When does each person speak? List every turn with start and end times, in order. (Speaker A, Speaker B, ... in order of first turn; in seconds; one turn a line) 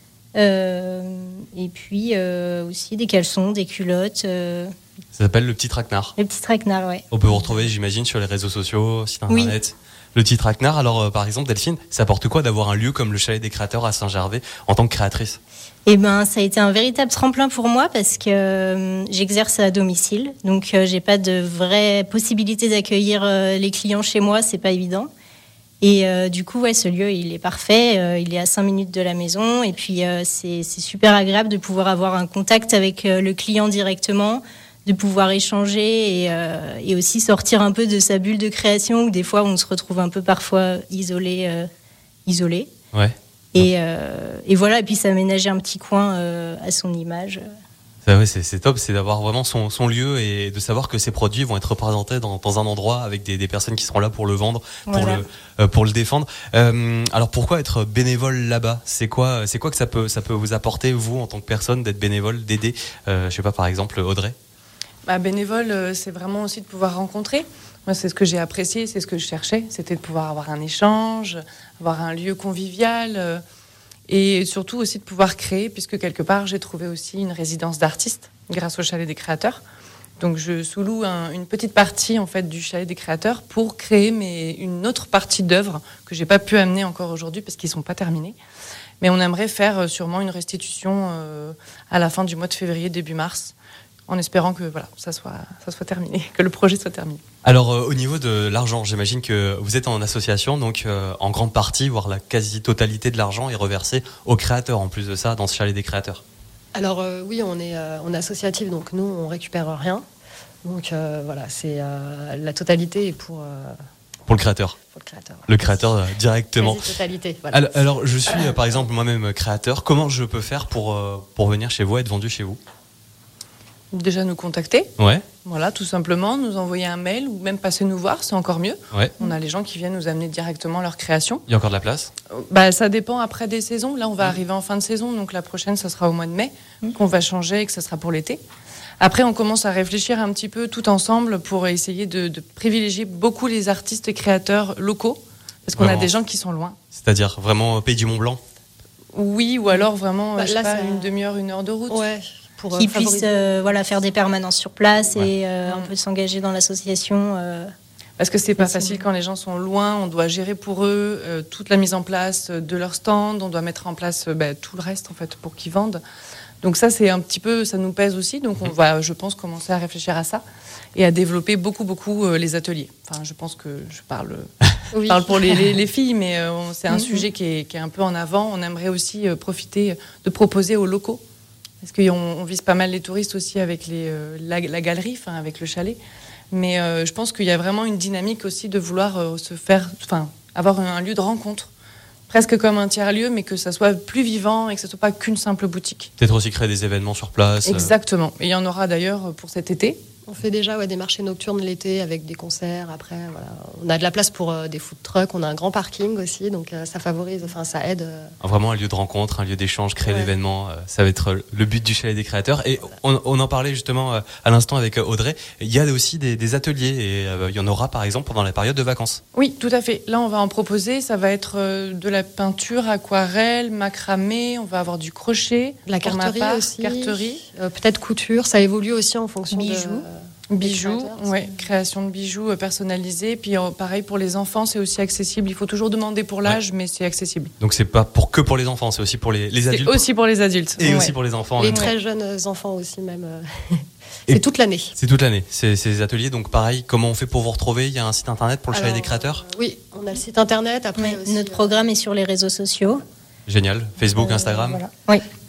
Speaker A: 0.3-4.7
Speaker B: 5.2-6.2
Speaker A: 6.2-7.0
Speaker B: 7.1-15.4
Speaker A: 9.3-9.6
Speaker A: 15.9-25.1
Speaker A: 25.8-41.7
Speaker A: 42.3-42.7
Speaker B: 42.9-43.7
Speaker A: 43.5-47.4
Speaker B: 48.1-64.4
Speaker A: 54.9-55.2
Speaker C: 65.1-73.4
Speaker C: 74.1-79.6
Speaker C: 80.2-88.4
Speaker C: 89.0-93.5
Speaker C: 94.1-97.2
Speaker B: 97.4-106.2
Speaker D: 106.8-110.0
Speaker D: 110.7-113.8
Speaker B: 114.3-114.8
Speaker D: 114.9-115.5
Speaker B: 115.5-116.9
Speaker D: 116.6-118.6
Speaker B: 117.5-122.6
Speaker C: 123.9-124.9
Speaker B: 125.0-125.2
Speaker C: 125.4-131.4
Speaker B: 131.5-132.1
Speaker C: 132.3-138.4
Speaker C: 139.0-146.8
Speaker B: 145.8-146.1
Speaker B: 146.9-148.4
Speaker C: 149.1-152.0
Speaker D: 150.4-151.1
Speaker D: 151.9-154.1
Speaker A: 152.8-157.7
Speaker C: 155.7-155.9
Speaker C: 158.2-166.0
Speaker A: 158.6-159.0
Speaker C: 166.6-170.4
Speaker C: 170.9-174.5
Speaker D: 174.9-175.8
Speaker C: 175.1-181.2
Speaker C: 181.8-186.0
Speaker C: 186.5-191.7
Speaker C: 192.3-196.1
Speaker B: 196.2-197.9
Speaker C: 197.7-200.0
Speaker D: 200.3-208.3
Speaker B: 208.4-219.2
Speaker D: 210.1-210.3
Speaker C: 219.3-227.4
Speaker D: 225.9-231.4
Speaker C: 229.7-229.9
Speaker C: 230.5-237.5
Speaker B: 237.6-240.0
Speaker C: 239.7-241.9
Speaker B: 240.8-241.9
Speaker D: 241.6-244.9
Speaker B: 244.3-249.4
Speaker D: 248.7-251.8
Speaker A: 251.0-253.0
Speaker B: 253.5-254.8
Speaker A: 254.2-255.2